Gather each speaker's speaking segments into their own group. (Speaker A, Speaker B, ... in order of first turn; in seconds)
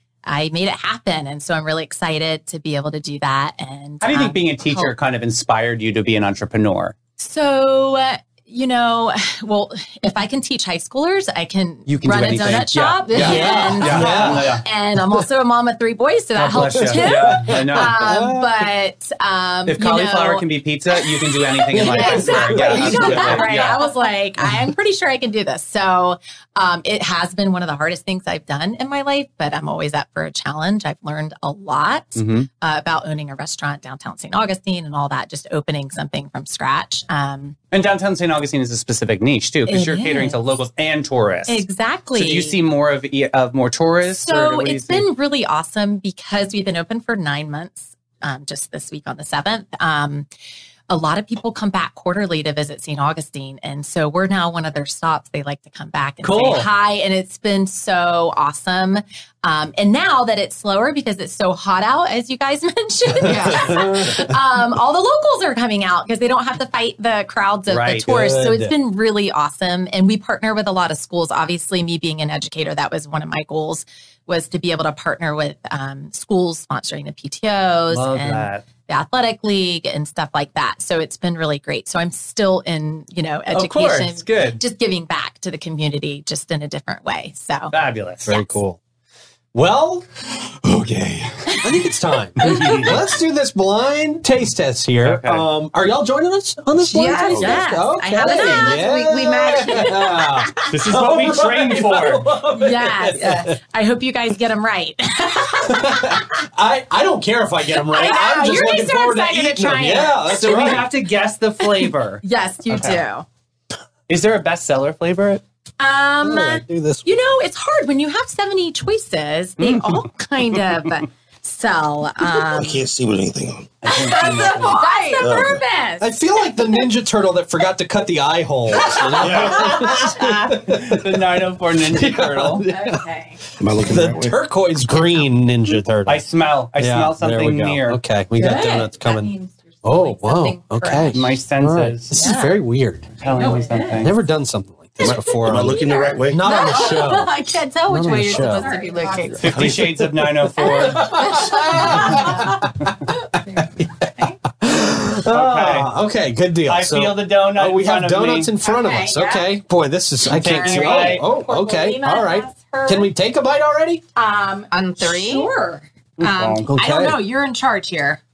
Speaker A: 0.3-4.9, 7.2-20.4, 21.0-37.6, 39.7-40.4, 41.5-42.6, 44.1-50.3, 50.9-87.7, 96.9-98.9, 99.5-100.7, 102.5-106.3, 107.8-110.8, 112.2-113.3, 115.8-122.8, 123.8-126.1, 129.0-129.5, 132.7-133.4, 134.9-135.2, 138.3-141.3, 142.1-142.6, 143.2-144.1, 145.6-147.3, 148.2-149.5, 150.6-152.7, 153.5-154.4, 158.6-159.5, 160.3-163.1, 164.2-168.2
Speaker B: 4.0-7.0, 11.9-14.6, 16.4-18.0, 19.7-23.8, 32.2-32.5, 37.7-45.1, 67.7-68.1, 77.9-78.6, 83.5-84.6, 87.7-88.4, 90.4-91.6, 92.4-92.9, 95.0-95.5, 100.7-102.3, 110.3-113.0, 114.1-115.4, 119.6-120.0, 123.8-124.8, 129.0-132.7, 136.1-138.0, 141.1-142.2, 143.2-144.2, 149.4-151.3, 155.3-155.9, 156.7-158.5, 160.2-161.2, 166.2-166.7
Speaker C: 13.1-13.8, 22.0-23.0, 63.2-63.9, 96.9-97.4, 98.1-100.0, 124.0-125.3, 146.4-149.5, 151.3-152.0, 164.7-165.5
Speaker D: 13.2-14.6, 16.7-18.7, 21.7-23.6, 56.2-56.7, 63.2-64.3, 68.1-68.8, 88.2-88.8, 89.5-90.1, 91.6-103.6, 105.7-110.9, 116.2-117.1, 126.0-133.0, 133.8-136.2, 136.8-139.3, 139.8-143.1, 143.9-147.3, 147.9-148.7, 149.6-152.9, 153.5-164.0, 166.7-167.2
Speaker E: 97.3-97.6, 122.4-123.7, 125.2-125.6, 129.2-129.9, 133.6-134.4, 145.0-146.6